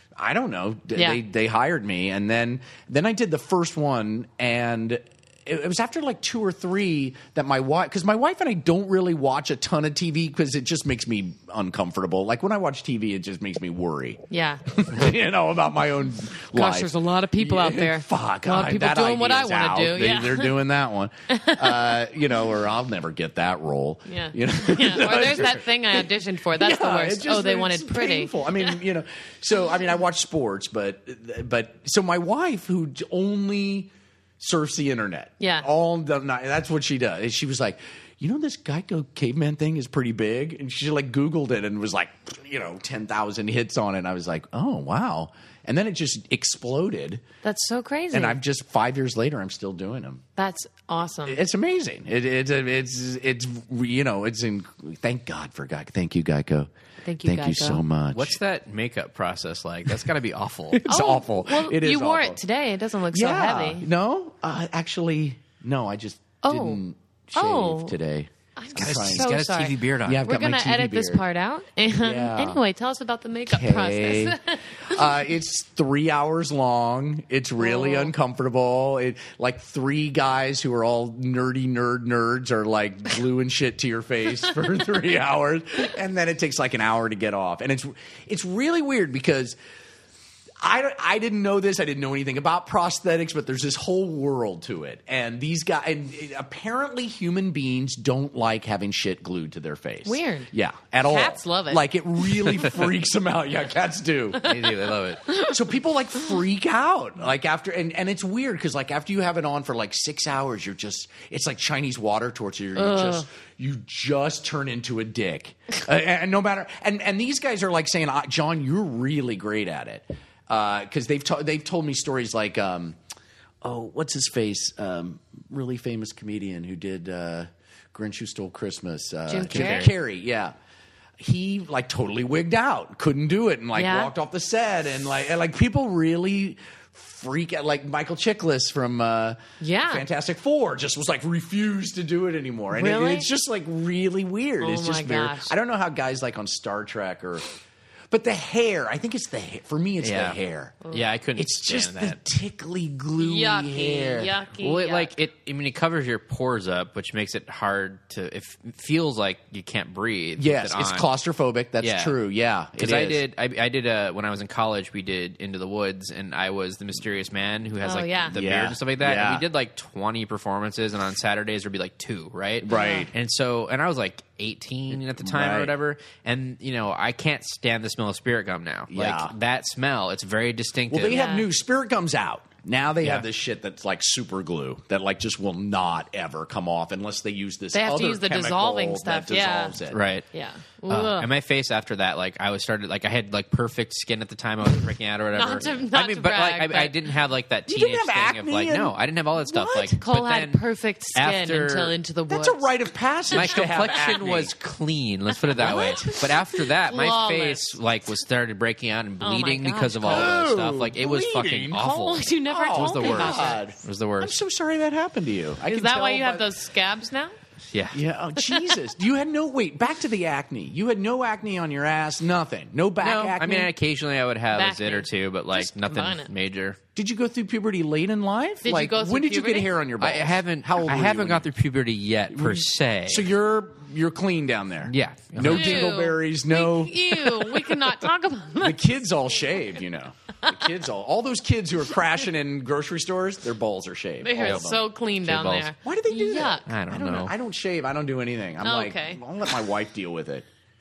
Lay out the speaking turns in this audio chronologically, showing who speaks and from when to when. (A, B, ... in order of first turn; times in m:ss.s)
0:00.2-0:14.2 A
0:14.3-0:14.9 B
0:14.8-0:47.2 A
0:16.5-0:20.6 B
0:21.3-0:22.0 B
0:24.1-0:28.8 B
0:35.4-0:35.7 B
0:47.4-0:48.4 B
0:48.1-0:50.2 A
0:50.4-0:51.4 B
0:51.3-0:56.7 A
0:57.0-0:57.8 B
0:57.2-0:58.4 A
0:58.1-1:00.8 C
1:00.7-1:02.4 A
1:00.9-1:03.9 B
1:03.1-1:09.4 A
1:06.4-1:06.8 B
1:07.4-1:08.0 B
1:08.6-1:15.1 B
1:08.8-1:10.3 C
1:10.0-1:11.2 A
1:12.0-1:12.6 A
1:13.5-1:29.6 A
1:17.6-1:18.1 B
1:30.6-1:44.7 A
1:40.0-1:40.5 B
1:41.1-1:42.6 B
1:44.4-1:45.3 C
1:45.3-2:03.0 A
1:52.8-1:53.3 B
2:03.6-2:10.5 A
2:09.3-2:09.9 B
2:09.5-2:09.9 C
2:11.2-2:27.4 A
2:13.8-2:14.1 B
2:19.6-2:20.0 B
2:22.7-2:23.3 B
2:24.6-2:25.5 B
2:28.1-2:30.8 A
2:30.0-2:30.4 C
2:30.9-2:32.2 C
2:31.4-2:34.3 A
2:33.2-2:35.1 B
2:34.5-2:41.1 C
2:40.4-2:43.2 A
2:41.8-2:42.2 C
2:42.8-3:01.2 C
2:47.8-2:48.4 B
2:48.3-2:49.5 A
2:52.6-2:53.1 A
2:52.7-2:53.1 B
2:55.2-2:55.7 A
2:58.9-2:59.3 A
3:00.9-3:10.0 A
3:01.1-3:01.5 B
3:07.7-3:09.8 B
3:09.9-3:10.3 C
3:10.3-3:11.3 B
3:10.9-3:20.6 C
3:15.4-3:17.0 B
3:17.7-3:20.0 A
3:20.0-3:22.6 B
3:21.2-3:21.9 C
3:22.3-3:24.5 A
3:23.3-3:34.4 C
3:23.3-3:24.2 B
3:25.5-3:27.8 B
3:25.6-3:26.2 A
3:29.2-3:30.3 B
3:30.1-3:36.5 A
3:32.0-3:33.6 B
3:35.7-3:37.3 B
3:37.7-3:38.0 C
3:37.9-3:43.7 A
3:38.4-3:38.8 B
3:43.0-3:46.8 C
3:44.5-3:46.3 B
3:47.0-3:51.5 A
3:48.6-3:49.7 B
3:50.0-3:53.3 C
3:52.3-3:57.5 A
3:54.9-3:55.9 C
3:55.4-3:59.0 B
3:58.6-4:04.8 A
4:04.2-4:06.7 B
4:04.4-4:04.6 C
4:05.2-4:05.7 C
4:05.8-4:10.5 A
4:06.7-4:07.3 C
4:08.6-4:09.2 B